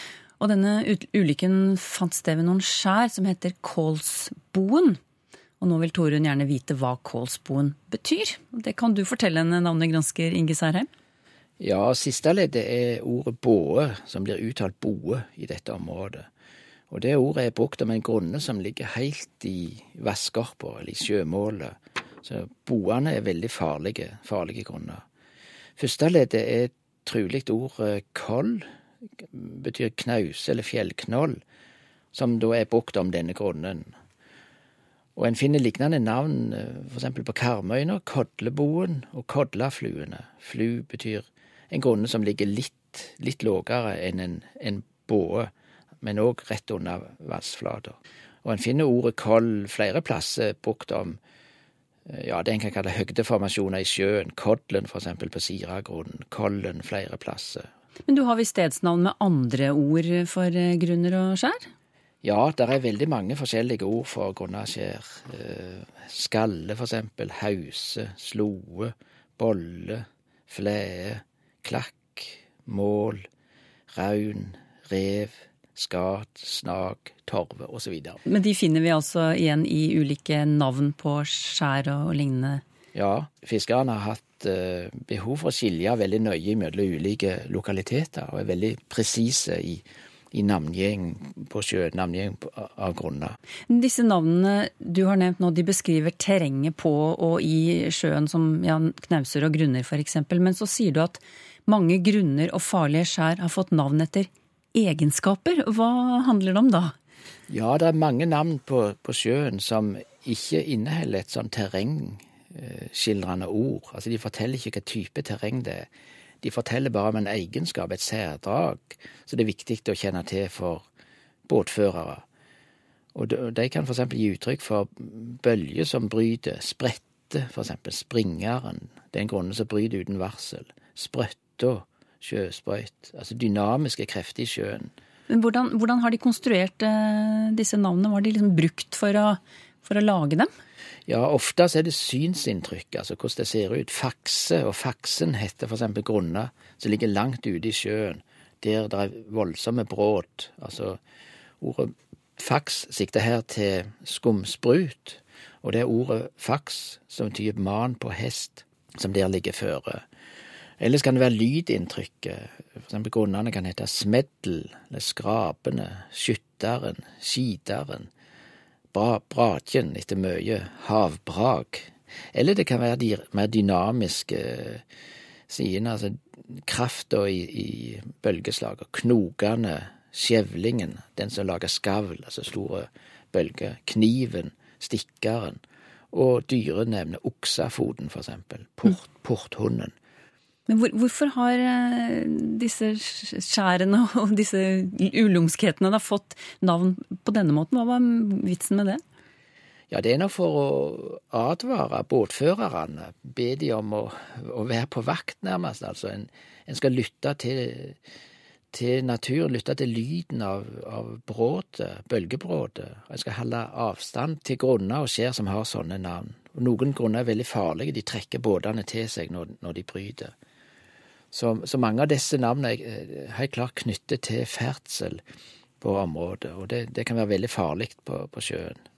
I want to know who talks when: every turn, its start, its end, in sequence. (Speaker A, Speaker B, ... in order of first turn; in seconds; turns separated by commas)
Speaker A: 0.4-5.0, Speaker A: 5.6-10.9, Speaker B: 11.6-16.3, Speaker B: 16.9-25.0, Speaker B: 25.8-28.7, Speaker B: 29.2-31.4, Speaker B: 32.1-33.9, Speaker B: 35.1-51.2, Speaker B: 52.0-57.7, Speaker A: 58.1-61.7, Speaker B: 62.2-73.3, Speaker B: 73.9-78.2, Speaker A: 78.2-82.6, Speaker B: 82.9-93.4, Speaker A: 93.7-106.9, Speaker B: 107.5-115.9, Speaker B: 116.4-120.8, Speaker B: 121.5-122.2, Speaker B: 123.1-134.9, Speaker A: 135.3-140.5, Speaker B: 141.1-151.0, Speaker B: 151.6-160.0, Speaker B: 160.8-168.1, Speaker B: 168.9-174.8, Speaker B: 175.5-185.6, Speaker B: 186.1-189.9, Speaker A: 190.7-199.0, Speaker B: 199.9-208.0, Speaker B: 208.7-220.3, Speaker B: 221.3-225.2, Speaker B: 225.8-228.8